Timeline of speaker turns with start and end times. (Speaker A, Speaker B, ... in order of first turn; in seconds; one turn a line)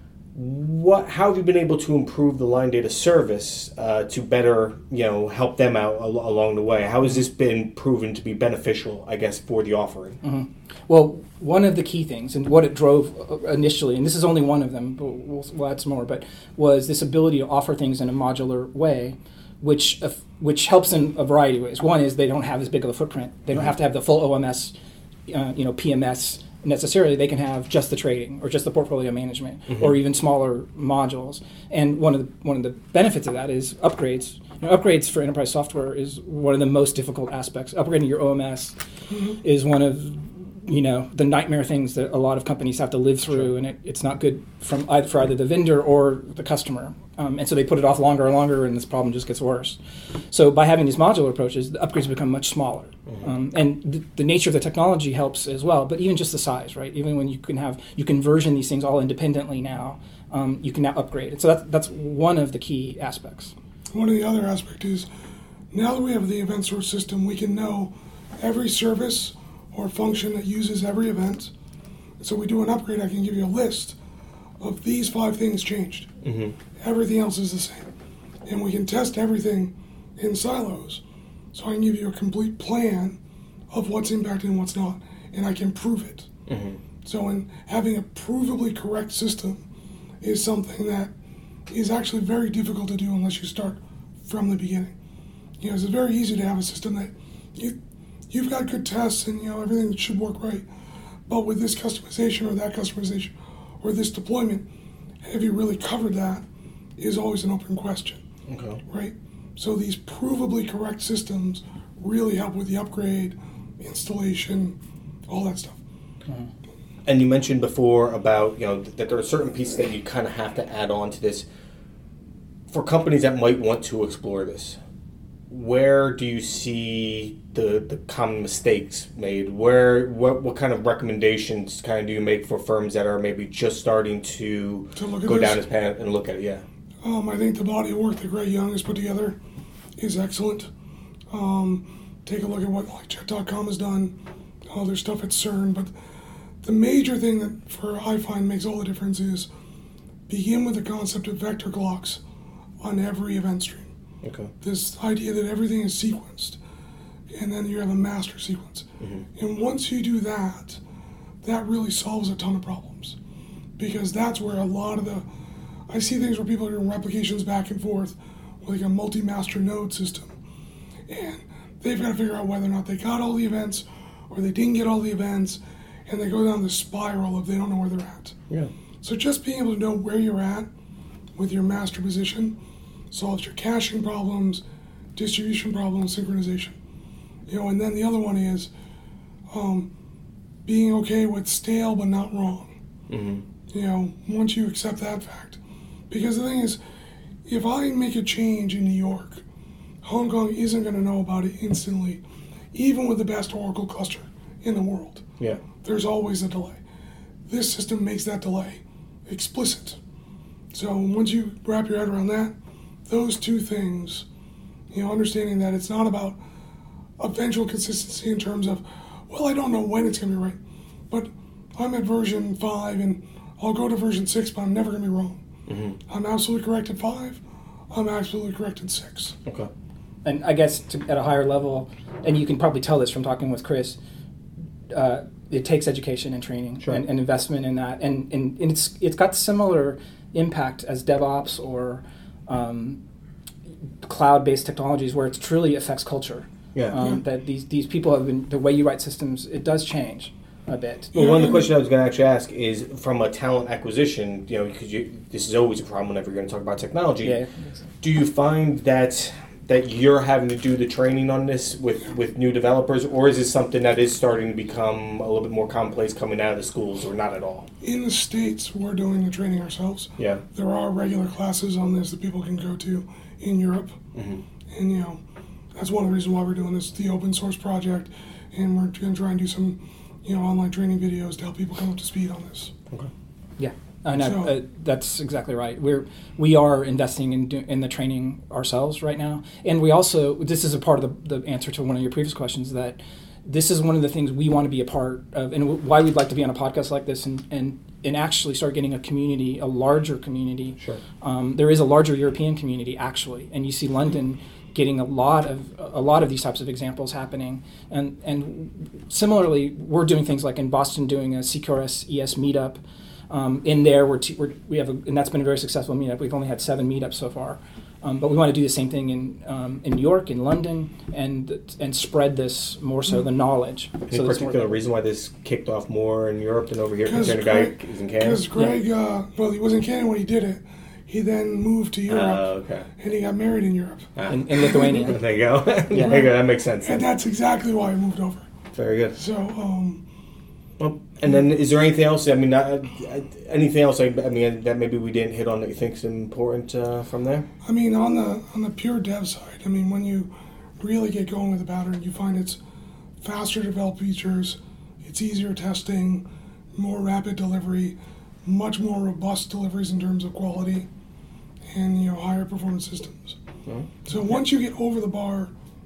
Speaker A: 0.3-10.2
Speaker B: 10.2-24.7
Speaker B: 25.3-38.8
Speaker A: 29.7-29.9
Speaker C: 39.1-39.4
Speaker B: 39.4-49.8
Speaker B: 50.3-63.5
Speaker C: 63.9-65.1
Speaker C: 65.7-71.5
Speaker C: 72.2-74.0
Speaker C: 74.6-76.1
Speaker A: 76.2-76.6
Speaker C: 76.8-77.9
Speaker C: 78.5-81.0
Speaker C: 81.5-83.2
Speaker C: 83.7-86.3
Speaker A: 86.5-86.8
Speaker C: 87.0-89.6
Speaker C: 90.2-91.1
Speaker C: 91.7-94.9
Speaker C: 95.6-97.8
Speaker C: 98.3-100.7
Speaker C: 101.3-104.7
Speaker C: 105.2-106.4
Speaker C: 107.0-108.2
Speaker A: 108.5-108.8
Speaker C: 108.9-115.8
Speaker A: 117.0-121.5
Speaker A: 122.7-124.8
Speaker A: 125.5-136.6
Speaker C: 134.9-135.6
Speaker C: 137.0-139.4
Speaker C: 140.0-140.7
Speaker C: 141.3-145.9
Speaker C: 146.6-149.5
Speaker C: 150.3-152.2
Speaker C: 152.8-153.9
Speaker A: 154.2-154.5
Speaker C: 154.6-156.6
Speaker C: 157.3-160.8
Speaker A: 159.0-159.2
Speaker C: 161.4-163.2
Speaker C: 163.8-165.2
Speaker C: 165.9-170.3
Speaker C: 171.1-178.4
Speaker C: 179.0-180.7
Speaker C: 181.3-182.6
Speaker C: 183.1-184.6
Speaker C: 185.2-186.8
Speaker C: 187.5-188.7
Speaker C: 189.5-189.9
Speaker C: 190.6-192.8
Speaker A: 193.1-193.4
Speaker C: 193.7-195.6
Speaker C: 196.1-196.8
Speaker C: 197.4-199.4
Speaker C: 200.0-205.2
Speaker C: 205.8-206.8
Speaker C: 207.5-210.0
Speaker C: 210.7-212.5
Speaker C: 213.1-214.2
Speaker C: 214.9-216.4
Speaker C: 217.2-220.6
Speaker C: 221.1-225.4
Speaker A: 225.7-226.0
Speaker C: 226.1-229.3
Speaker B: 230.2-234.0
Speaker B: 234.9-243.0
Speaker B: 244.0-251.1
Speaker C: 251.1-251.7
Speaker A: 251.1-257.4
Speaker B: 257.2-257.5
Speaker A: 258.0-267.7
Speaker C: 267.8-274.0
Speaker A: 270.2-270.4
Speaker A: 274.1-274.4
Speaker C: 274.7-275.2
Speaker C: 275.7-282.7
Speaker B: 283.6-324.8
Speaker C: 284.1-284.5
Speaker A: 324.1-328.4
Speaker C: 327.0-332.5
Speaker B: 328.5-328.8
Speaker A: 332.1-332.9
Speaker C: 333.0-334.1
Speaker A: 334.1-337.1
Speaker B: 334.3-335.2
Speaker C: 334.6-334.9
Speaker C: 335.9-336.3
Speaker C: 336.8-338.5
Speaker A: 338.7-339.2
Speaker C: 339.1-340.0
Speaker A: 340.8-347.5
Speaker C: 347.6-352.6
Speaker C: 353.2-360.9
Speaker C: 361.7-363.4
Speaker C: 364.1-365.5